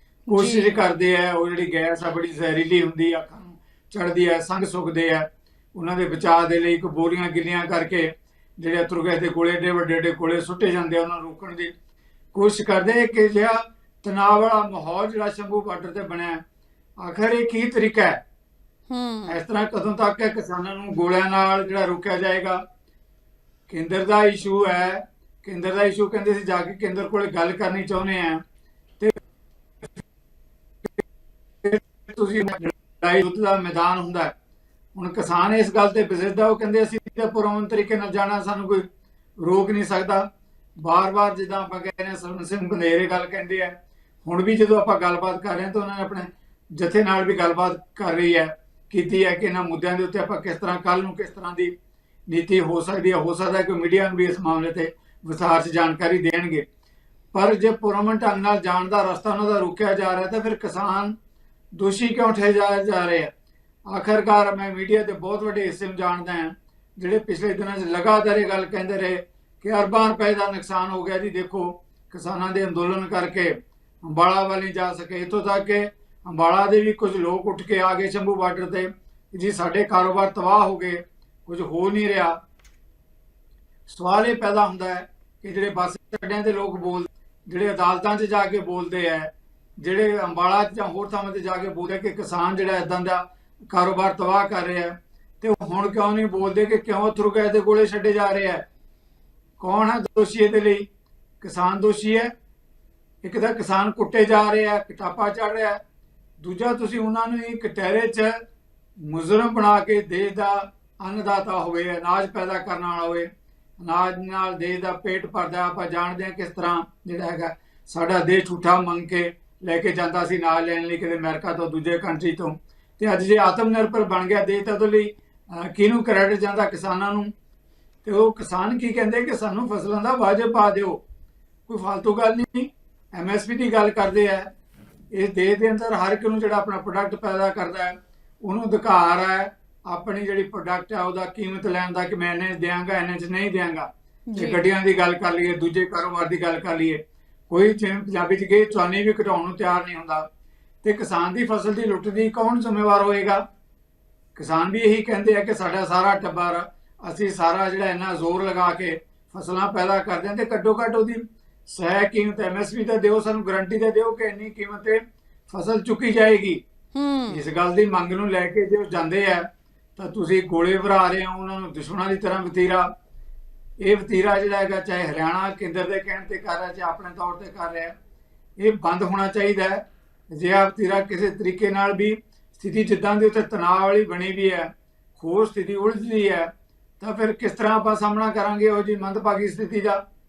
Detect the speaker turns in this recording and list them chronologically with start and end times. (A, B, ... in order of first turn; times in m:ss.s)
0:00.3-0:00.8 A
0:00.3-0:11.7 B
0:12.3-0:16.4 B
0:17.0-0:18.2 B
0:18.9-0:19.4 A
0:19.3-0:22.6 B
0:23.7-0:28.4 B
0:31.6-0:34.3 B
0:34.9-0:38.8 B
0:39.4-0:40.2 B
0:40.8-0:51.7 B
0:52.3-0:56.6 B
0:57.3-1:01.1 B
1:01.7-1:03.3 B
1:03.9-1:22.3 B
1:23.9-1:38.6 B
1:39.6-1:40.8 B
1:41.4-1:42.3 B
1:43.2-1:45.8 B
1:46.4-1:48.3 B
1:49.0-1:53.3 B
1:53.8-2:07.3 B
2:08.0-2:11.0 B
2:11.7-2:14.5 B
2:15.1-2:30.3 B
2:24.3-2:24.6 A
2:30.8-2:33.4 B
2:34.4-2:46.6 B
2:46.9-2:47.4 A
2:47.3-2:52.9 B
2:53.8-2:57.9 B
2:58.6-3:10.0 B